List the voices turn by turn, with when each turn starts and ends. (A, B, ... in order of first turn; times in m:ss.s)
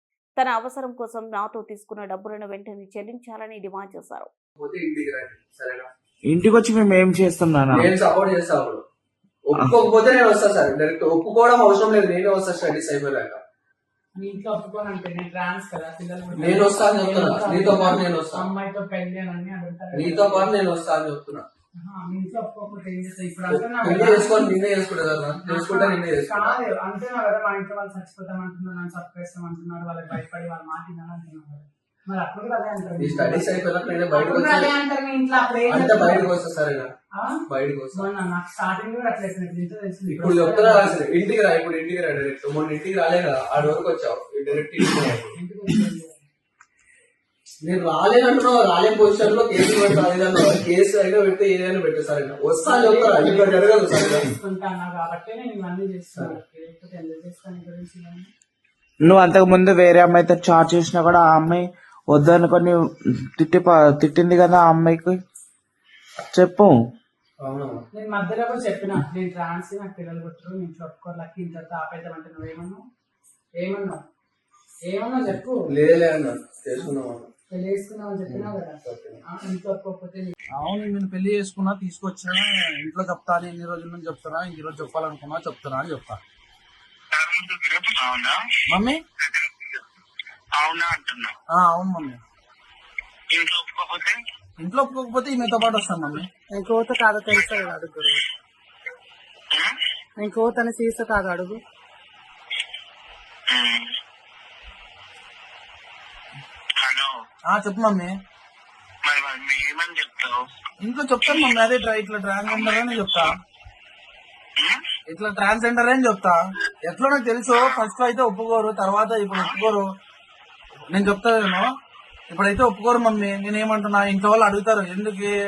0:00.4-0:04.3 A
0:04.6-0:05.9 B
0:06.3-0:07.9 C
0:07.7-0:08.8 B
0:09.4-0:13.4 B
0:14.1-0:20.5 D
0:16.3-0:18.5 B
0:19.9-0:21.4 B
0:21.8-0:24.5 D
0:23.5-0:26.6 B
0:25.4-0:36.4 D
0:33.0-0:34.8 B
0:35.6-0:36.9 B
0:37.2-0:41.1 D
0:37.5-0:38.1 B
0:40.0-0:45.4 B
0:45.2-0:46.2 D
0:47.6-0:54.4 B
0:52.6-0:58.3 D
0:59.0-1:05.2 C
1:06.2-1:06.7 C
1:07.4-1:07.8 B
1:07.9-1:12.8 D
1:13.6-1:14.0 D
1:14.9-1:15.7 D
1:15.3-1:17.3 B
1:17.5-1:20.3 D
1:18.3-1:19.2 B
1:20.6-1:26.2 E
1:27.1-1:28.4 F
1:28.7-1:29.0 E
1:29.3-1:29.7 F
1:30.6-1:31.3 F
1:31.5-1:32.2 E
1:33.3-1:34.2 F
1:34.6-1:36.3 E
1:36.5-1:38.2 D
1:37.3-1:37.6 F
1:40.2-1:41.6 D
1:43.5-1:43.9 F
1:46.8-1:47.2 F
1:47.4-1:48.1 E
1:49.0-1:50.4 F
1:50.8-1:53.3 E
1:51.3-1:51.6 F
1:52.5-1:53.2 F
1:55.1-1:59.8 E
1:57.5-1:57.8 F
2:00.9-2:01.7 E
2:02.3-2:05.3 E